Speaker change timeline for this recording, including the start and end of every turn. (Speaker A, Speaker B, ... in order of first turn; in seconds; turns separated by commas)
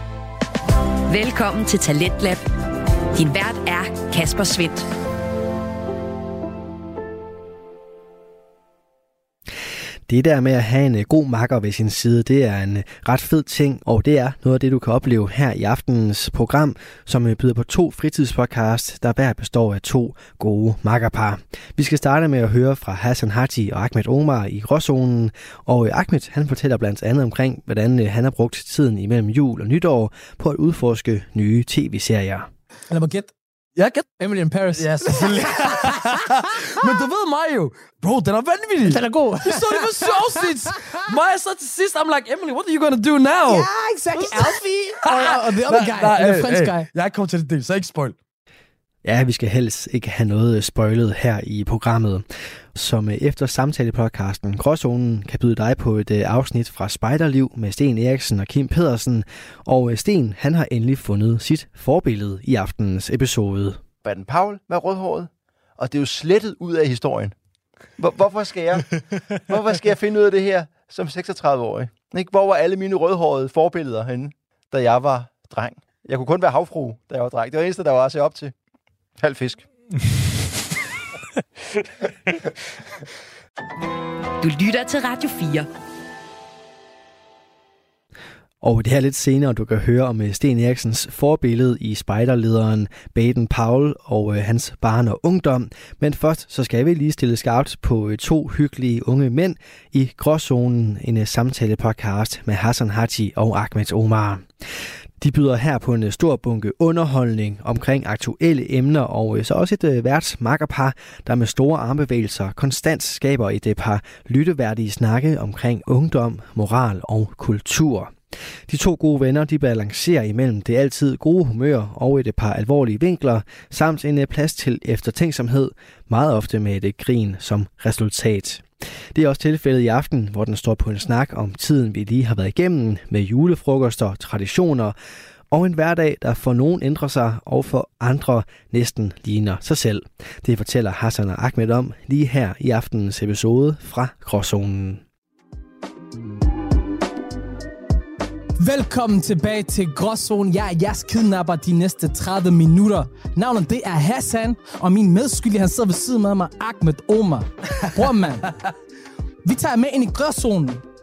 Speaker A: 1.1-2.5, Speaker A: 3.1-4.9, Speaker B: 10.1-32.5, Speaker C: 32.9-33.3, Speaker D: 33.8-34.2, Speaker C: 34.2-36.9, Speaker D: 34.7-48.1, Speaker C: 38.8-41.0, Speaker C: 43.5-46.9, Speaker B: 49.0-63.8, Speaker E: 64.0-67.3, Speaker E: 68.0-68.9, Speaker E: 69.5-78.5, Speaker E: 79.2-79.6, Speaker A: 84.4-85.7, Speaker B: 88.6-104.5, Speaker B: 105.2-118.1, Speaker B: 118.7-134.9, Speaker B: 135.5-145.0, Speaker C: 148.6-158.6, Speaker C: 159.4-160.8